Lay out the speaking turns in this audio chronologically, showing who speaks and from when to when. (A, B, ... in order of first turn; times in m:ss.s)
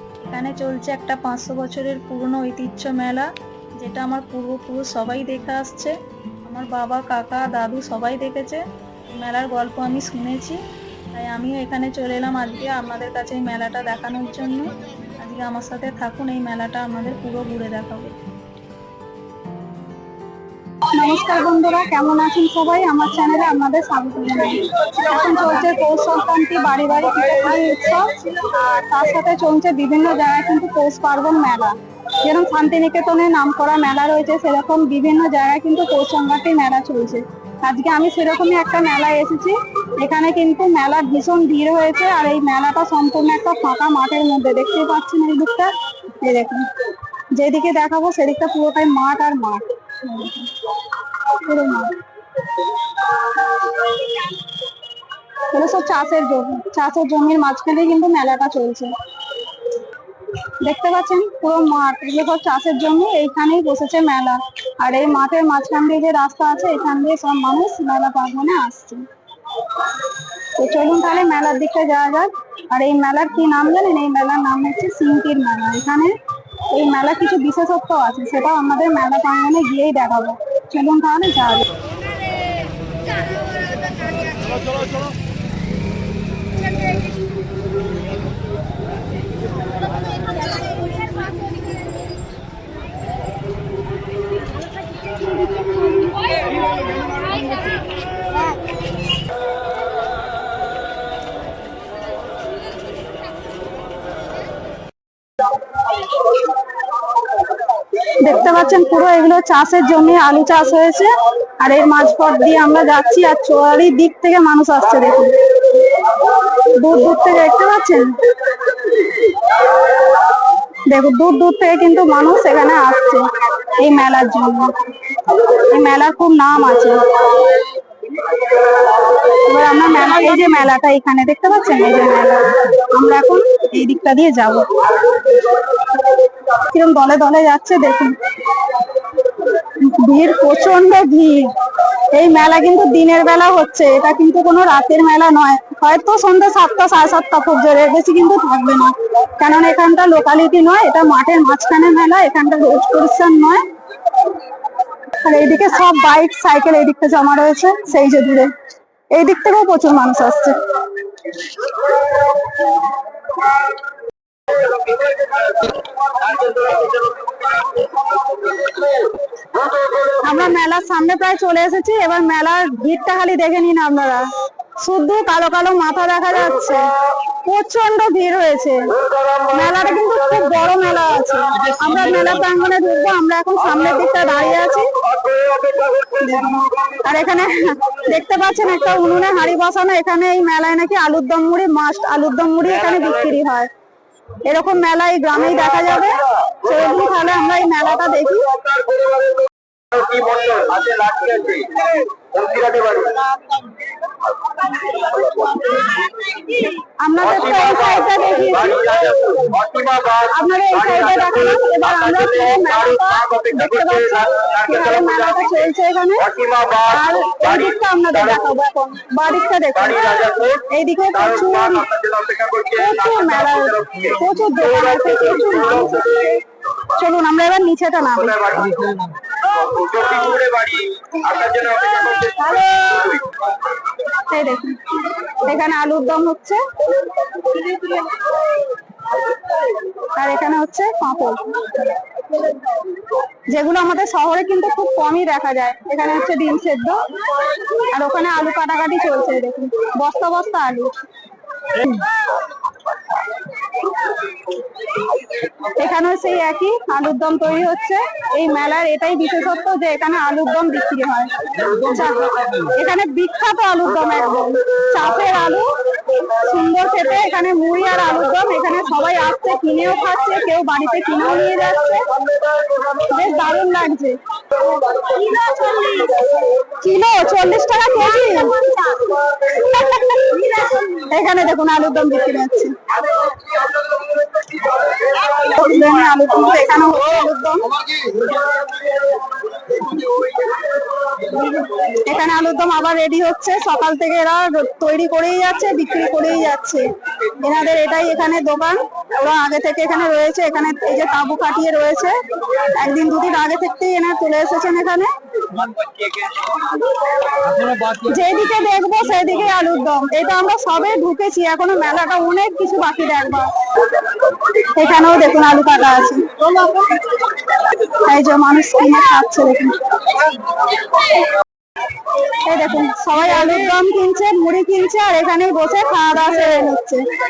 0:00.3-0:03.3 A
0:03.8-0:05.9 A
0:06.4-0:10.6 A
0:11.1-0:18.2 A
0:20.9-0:46.7 B
0:47.3-0:50.5 B
0:51.3-0:52.0 B
0:52.6-0:54.4 B
0:55.5-0:58.9 B
1:00.6-1:09.0 B
1:10.6-1:16.1 B
1:16.7-1:21.7 B
1:48.2-1:55.4 B
1:56.8-1:58.2 B
2:00.9-2:04.7 B
2:05.5-2:07.5 B
2:09.2-2:14.7 B
2:16.7-2:18.2 B
2:19.5-2:21.5 B
2:22.1-2:33.6 B
2:35.2-2:38.5 B
2:39.1-2:41.8 B
2:49.9-2:54.2 B
2:54.8-2:56.8 B
2:57.4-3:04.9 B
3:06.2-3:13.7 B
3:14.5-3:18.5 B
3:19.9-3:21.7 C
3:22.4-3:23.1 C
3:25.0-3:29.5 B
3:29.5-3:30.3 C
3:30.2-3:36.3 B
3:31.0-3:31.3 C
3:33.5-3:35.1 C
3:36.3-3:36.9 C
3:36.8-3:41.9 B
3:40.0-3:40.6 C
3:41.4-3:44.1 C
3:42.8-3:48.7 B
3:49.8-3:51.9 C
3:51.6-3:53.3 B
3:54.1-3:56.6 B
3:57.4-3:58.1 B
4:00.0-4:01.9 B
4:03.5-4:07.1 B
4:07.9-4:10.9 B
4:11.8-4:12.0 B
4:15.6-4:32.1 B
4:32.9-4:34.2 B
4:34.8-4:42.8 B
4:45.0-4:47.7 B
4:49.8-4:50.3 B
4:51.3-5:06.1 B
5:07.2-5:21.2 B
5:22.4-5:27.0 B